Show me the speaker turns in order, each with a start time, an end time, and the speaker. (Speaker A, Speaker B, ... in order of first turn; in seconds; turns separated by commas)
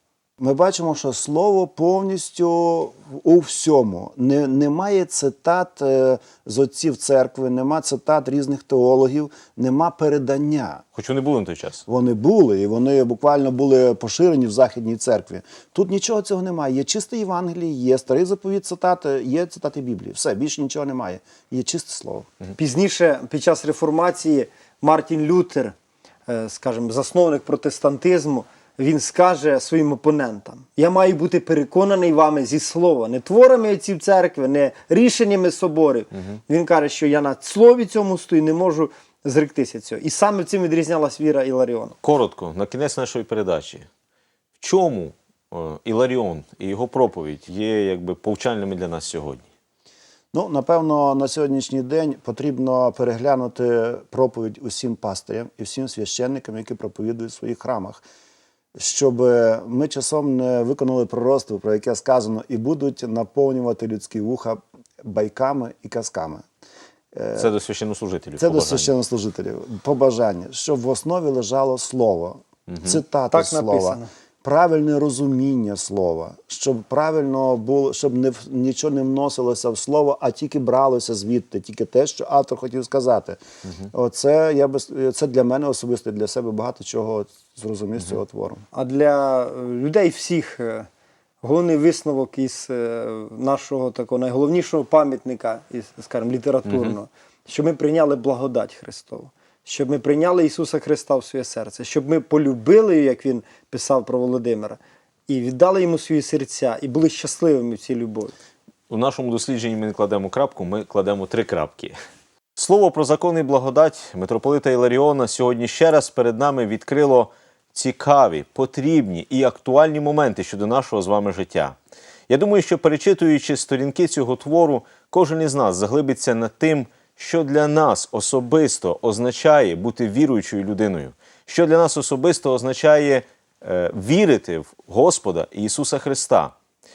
Speaker A: 0.4-10.8, Speaker B: 10.9-11.8, Speaker A: 11.9-22.3, Speaker C: 22.6-25.7, Speaker C: 26.3-42.0, Speaker B: 42.0-43.9, Speaker B: 44.6-49.4, Speaker A: 50.3-58.0, Speaker A: 58.8-66.4, Speaker A: 67.1-67.5, Speaker B: 67.3-68.9, Speaker A: 68.4-83.4, Speaker B: 72.7-73.0, Speaker C: 73.3-74.1, Speaker A: 83.9-88.6, Speaker C: 88.7-90.9, Speaker C: 91.4-108.3, Speaker B: 96.6-97.0, Speaker B: 108.9-112.0, Speaker B: 112.5-121.8, Speaker B: 122.3-136.5